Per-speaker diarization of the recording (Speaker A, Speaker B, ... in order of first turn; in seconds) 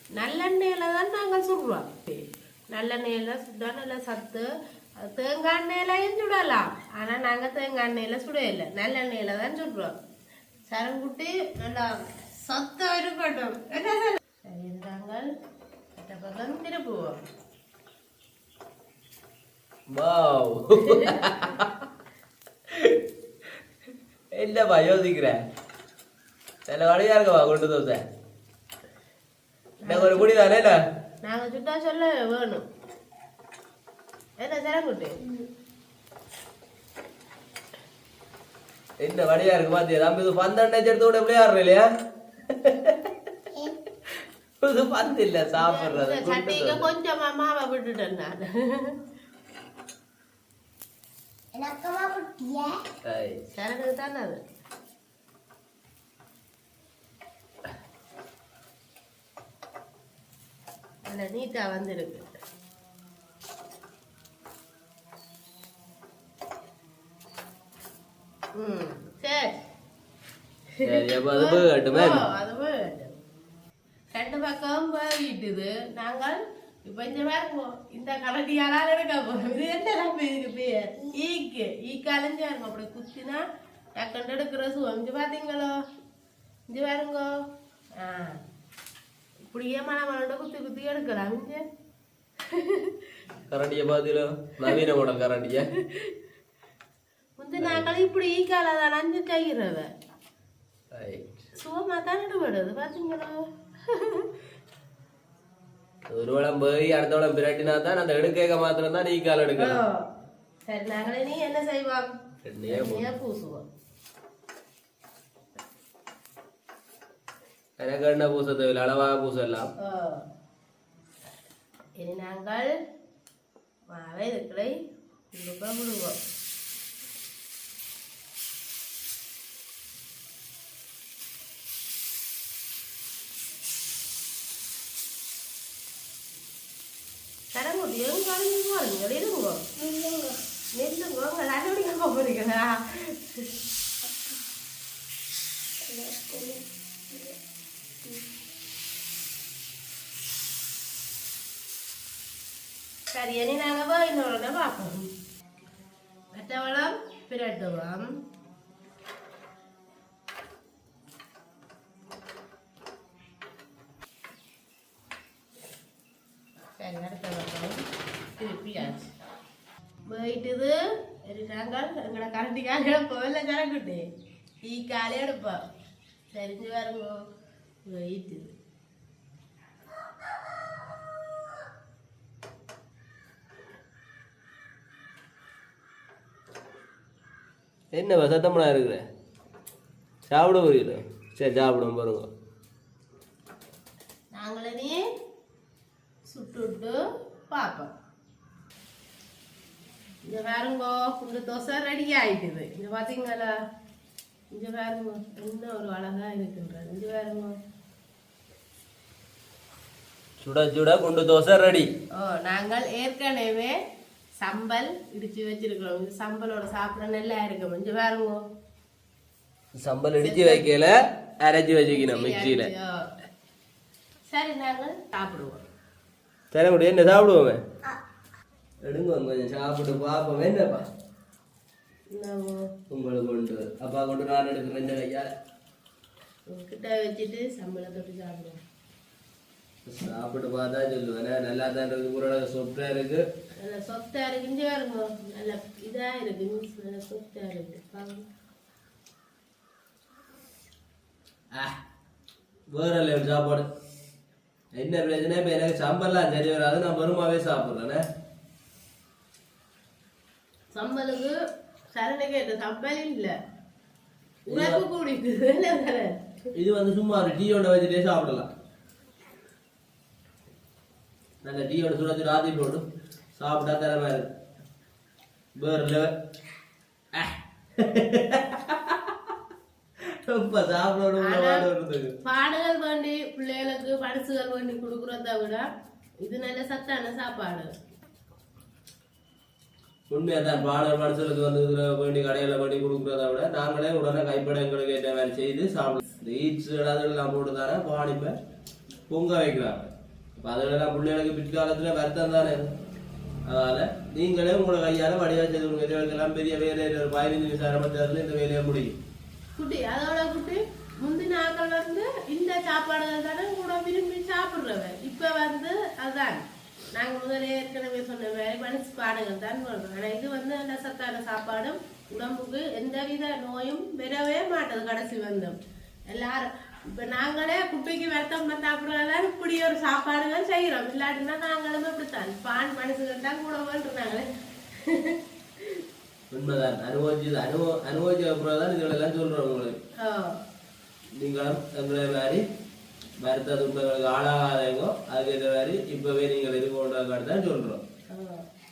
Speaker A: 0.2-4.5, 5.0-9.9, 10.7-11.9, 12.4-15.3, 16.0-17.2, 20.9-21.5, 29.8-30.3, 31.2-32.6, 34.4-35.2, 45.5-48.9, 53.5-54.4, 61.1-62.2, 68.6-69.5, 70.8-73.2, 74.1-83.4, 84.0-85.7, 86.7-87.3, 88.0-88.4, 89.5-91.6, 92.5-93.0, 97.4-99.9, 101.6-103.4, 103.9-104.3, 109.6-110.1, 110.7-112.1, 112.7-113.6, 119.8-120.2, 122.0-122.7, 123.9-124.8, 125.3-126.2, 137.5-139.6, 140.8-143.4, 153.1-155.1, 156.3-158.1, 166.8-167.8, 168.4-169.1, 170.1-170.7, 171.2-174.1, 174.7-175.6, 176.3-177.2, 177.9-178.5, 194.3-195.0, 196.3-197.0, 197.5-197.9, 200.3-203.5, 204.5-207.6, 212.2-213.7, 214.4-218.4, 220.2-220.7, 221.9-222.9, 224.3-225.6, 232.1-232.6, 236.5-238.6, 243.6-248.2, 260.7-261.3, 261.9-263.3, 264.5-266.2, 281.2-281.7, 282.2-285.6, 286.2-287.7, 309.6-316.4, 316.9-325.6, 326.1-335.8, 340.0-340.4, 348.1-348.4
Speaker B: 19.9-21.7, 24.4-25.4, 26.7-28.0, 29.9-30.8, 39.0-41.9, 42.5-43.1, 44.6-46.9, 53.1-53.4, 70.8-72.2, 93.5-95.7, 97.6-97.9, 100.9-101.3, 106.1-109.8, 112.5-113.1, 117.8-119.7, 187.9-189.0, 190.3-192.3, 210.4-211.9, 219.8-222.7, 226.5-227.6, 228.8-230.9, 232.9-235.3, 239.9-243.2, 252.7-253.7, 254.8-258.0, 264.5-264.8, 266.6-268.5, 271.4-272.9, 273.4-274.3, 275.6-276.1, 277.1-279.2, 280.3-282.1, 290.1-298.4, 299.1-302.7, 303.5-309.0, 336.3-339.8, 341.2-342.4, 343.2-347.8
Speaker C: 35.2-35.5, 51.5-52.8, 139.8-140.4, 145.8-147.3